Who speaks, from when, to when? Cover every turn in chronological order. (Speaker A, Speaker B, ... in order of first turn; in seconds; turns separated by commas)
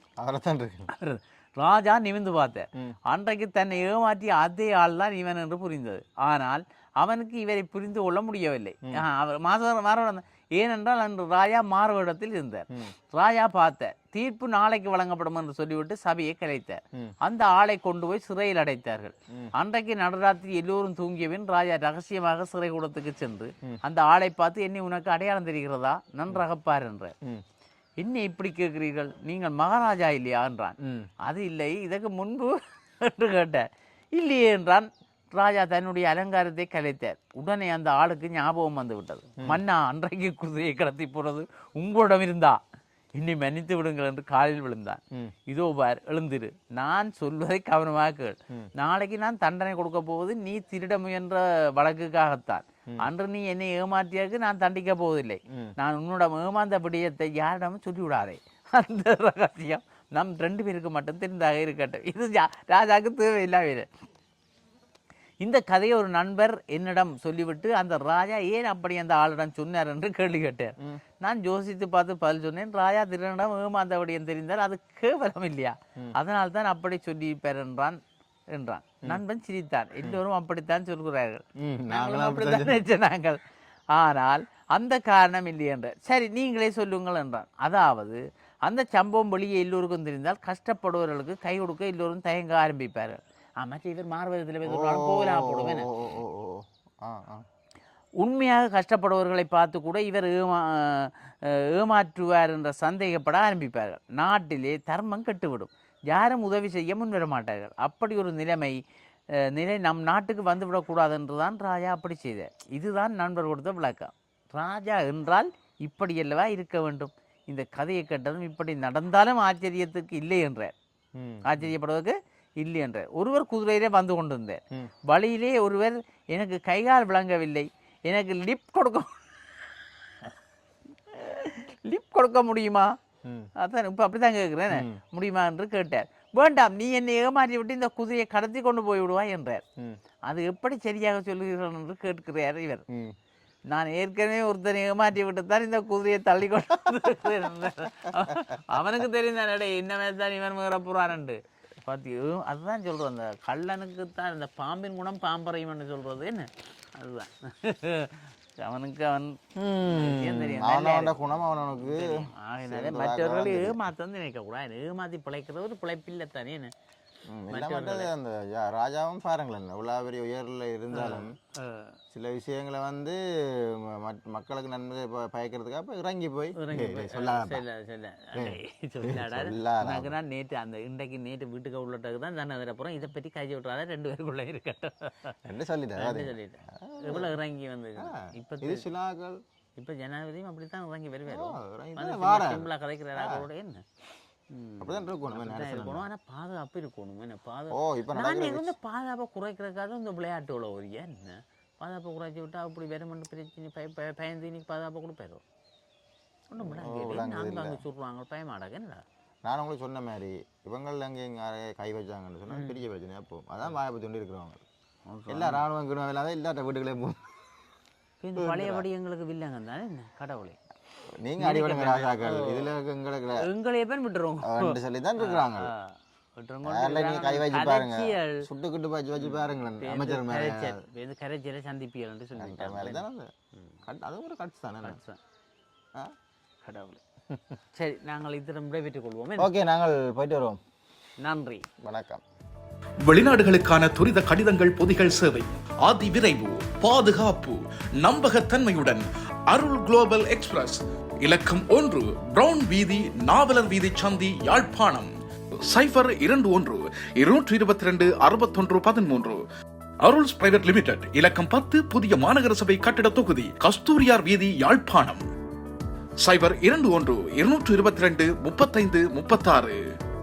Speaker A: 0.2-0.9, Speaker B: 0.9-27.1, Speaker B: 28.0-42.6, Speaker A: 30.8-31.1, Speaker B: 43.2-63.9, Speaker B: 65.4-78.0, Speaker B: 78.5-83.4, Speaker A: 81.6-82.8, Speaker B: 83.9-95.9, Speaker A: 94.7-97.4, Speaker B: 98.2-108.8, Speaker B: 109.4-120.7, Speaker A: 121.2-121.7, Speaker B: 121.5-129.2, Speaker B: 131.1-132.9, Speaker A: 133.2-133.5, Speaker B: 133.6-139.7, Speaker A: 134.7-135.0, Speaker B: 140.3-142.8, Speaker A: 142.9-143.2, Speaker B: 143.7-166.7, Speaker A: 159.6-163.8, Speaker A: 167.3-171.4, Speaker B: 167.5-168.1, Speaker B: 170.9-172.0, Speaker A: 172.1-177.6, Speaker B: 176.6-185.4, Speaker A: 178.3-180.2, Speaker A: 185.4-187.4, Speaker B: 186.0-188.9, Speaker A: 188.0-189.4, Speaker B: 189.8-193.8, Speaker A: 191.3-193.5, Speaker B: 194.5-205.4, Speaker A: 194.8-196.1, Speaker A: 197.7-198.8, Speaker B: 206.5-209.0, Speaker A: 206.6-207.8, Speaker A: 209.4-214.6, Speaker B: 212.5-212.8, Speaker B: 215.1-215.7, Speaker A: 215.3-217.2, Speaker B: 218.2-220.6, Speaker A: 218.4-218.8, Speaker A: 221.2-223.5, Speaker B: 221.4-222.7, Speaker B: 223.4-228.5, Speaker A: 224.4-225.7, Speaker A: 226.7-230.8, Speaker B: 229.2-233.1, Speaker A: 232.4-233.3, Speaker A: 233.9-235.0, Speaker B: 234.8-235.2, Speaker B: 236.7-237.0, Speaker B: 237.7-239.5, Speaker A: 239.4-240.6, Speaker B: 241.2-241.7, Speaker A: 241.8-242.2, Speaker C: 243.1-255.1, Speaker C: 255.7-259.4, Speaker C: 260.0-265.2, Speaker C: 266.2-269.8